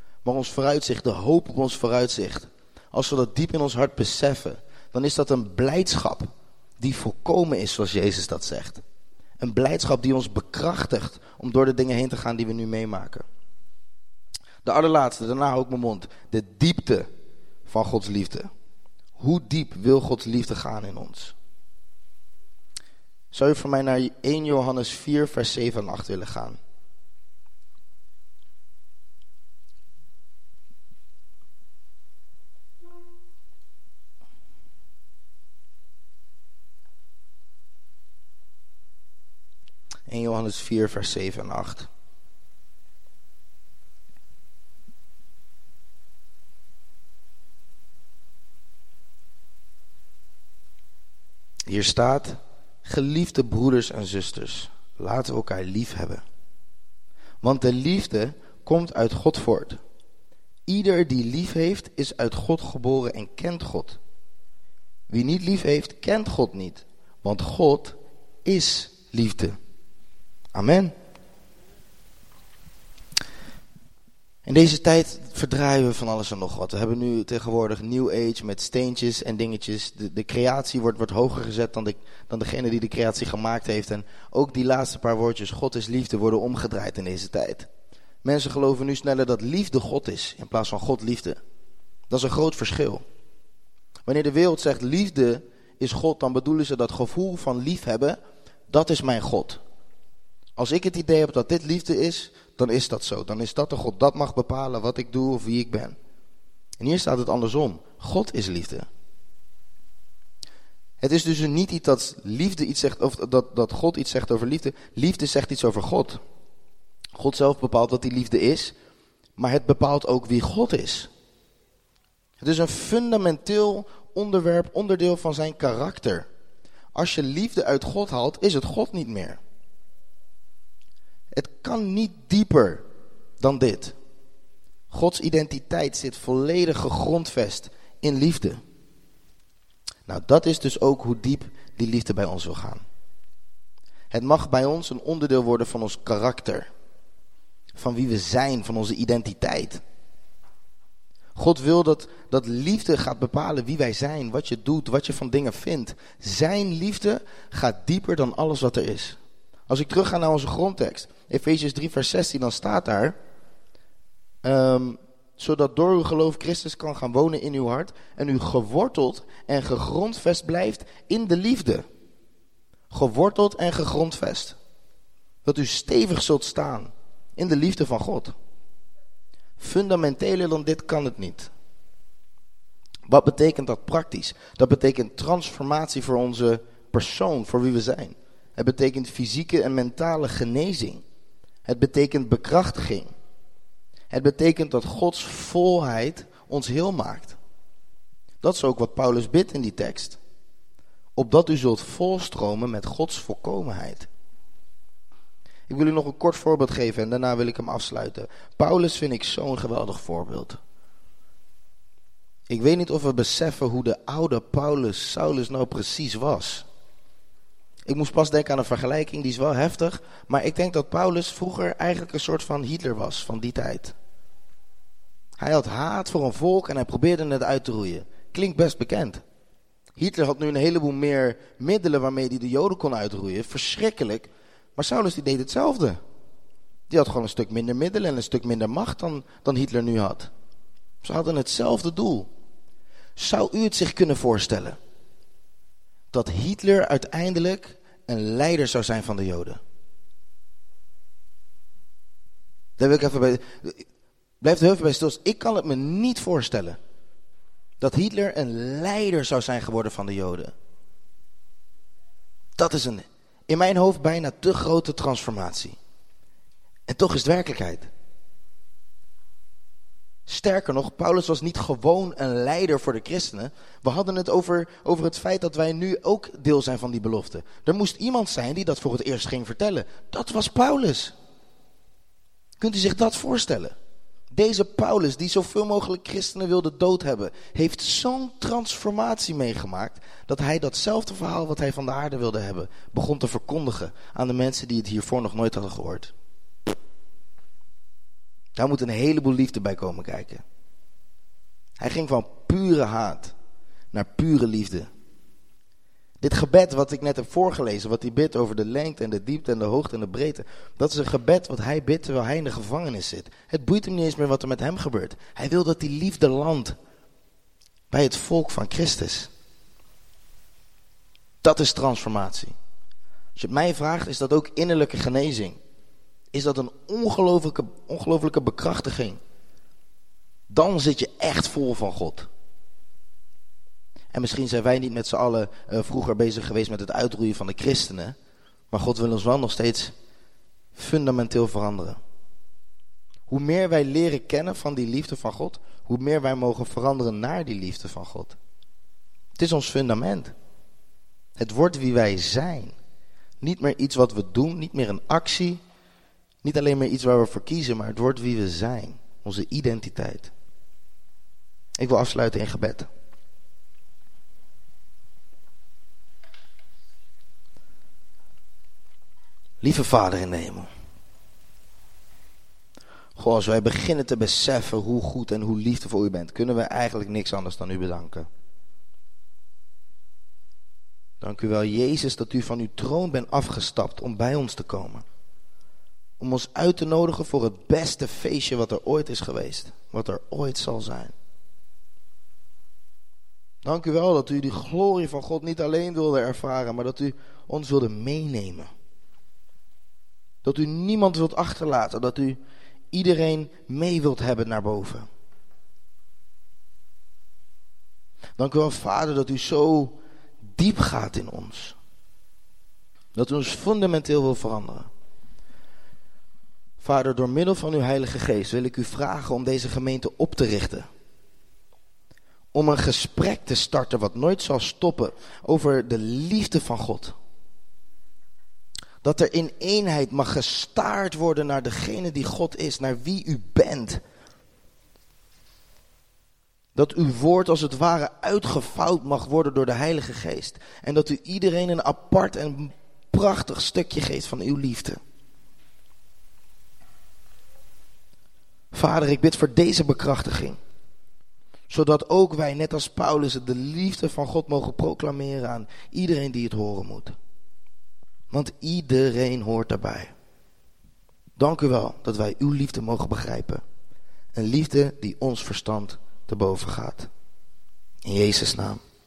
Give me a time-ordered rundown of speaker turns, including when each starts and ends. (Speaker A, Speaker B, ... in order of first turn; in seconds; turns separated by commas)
Speaker A: 0.2-8.8, Speaker A: 9.4-13.2, Speaker A: 14.6-17.1, Speaker A: 17.6-18.5, Speaker A: 19.2-21.3, Speaker A: 23.3-26.6, Speaker A: 40.1-41.9, Speaker A: 51.7-56.2, Speaker A: 57.4-59.8, Speaker A: 60.7-64.0, Speaker A: 65.1-69.6, Speaker A: 70.5-70.9, Speaker A: 74.4-87.7, Speaker A: 88.2-91.4, Speaker A: 92.1-93.0, Speaker A: 94.0-98.2, Speaker A: 98.7-99.6, Speaker A: 100.6-106.0, Speaker A: 106.8-108.9, Speaker A: 111.0-116.2, Speaker A: 117.1-118.7, Speaker A: 119.4-121.1, Speaker A: 122.4-126.3, Speaker A: 126.9-129.4, Speaker A: 131.3-132.8, Speaker A: 133.4-133.9, Speaker A: 134.9-138.6, Speaker A: 140.1-142.8, Speaker A: 144.1-146.7, Speaker A: 147.7-149.8, Speaker A: 151.3-163.2, Speaker A: 164.4-171.8, Speaker A: 172.9-174.6, Speaker A: 175.4-178.3, Speaker A: 179.6-181.5, Speaker A: 183.1-191.0, Speaker A: 191.7-193.1, Speaker A: 194.1-197.4, Speaker A: 198.4-200.2, Speaker A: 201.2-204.1, Speaker A: 205.7-210.6, Speaker A: 212.5-216.6, Speaker A: 217.8-223.9, Speaker A: 225.4-229.2, Speaker A: 229.9-236.0, Speaker A: 236.9-240.3, Speaker A: 241.0-242.3, Speaker A: 243.2-244.8, Speaker A: 246.1-249.6, Speaker A: 252.8-253.8, Speaker A: 254.4-256.8, Speaker A: 257.8-260.5, Speaker A: 262.6-265.8, Speaker A: 266.9-267.9, Speaker A: 270.3-281.1, Speaker A: 282.6-283.7, Speaker A: 284.3-296.1, Speaker A: 298.5-300.4, Speaker A: 301.8-303.3, Speaker A: 303.9-304.9, Speaker A: 306.2-316.8, Speaker A: 317.9-319.3, Speaker A: 321.4-322.5, Speaker A: 323.3-325.6, Speaker A: 326.3-329.2, Speaker A: 330.5-332.3, Speaker A: 334.1-338.2, Speaker A: 338.7-339.9, Speaker A: 340.7-342.0, Speaker A: 343.3-348.4, Speaker A: 349.4-350.3, Speaker A: 351.4-352.8, Speaker A: 353.4-355.6, Speaker A: 356.4-360.3, Speaker A: 361.8-362.9, Speaker A: 369.6-370.7, Speaker A: 373.2-378.3, Speaker A: 381.2-385.0, Speaker A: 386.2-391.1, Speaker A: 393.6-398.7, Speaker A: 400.4-402.4, Speaker A: 402.9-405.1, Speaker A: 408.4-410.0, Speaker A: 410.5-411.8, Speaker A: 413.1-414.9, Speaker A: 416.8-420.9, Speaker A: 422.5-427.1, Speaker A: 429.0-434.0, Speaker A: 436.7-445.0, Speaker A: 448.7-450.6, Speaker A: 451.7-457.1, Speaker A: 458.3-460.1, Speaker A: 461.4-463.6, Speaker A: 464.3-467.1, Speaker A: 468.0-468.8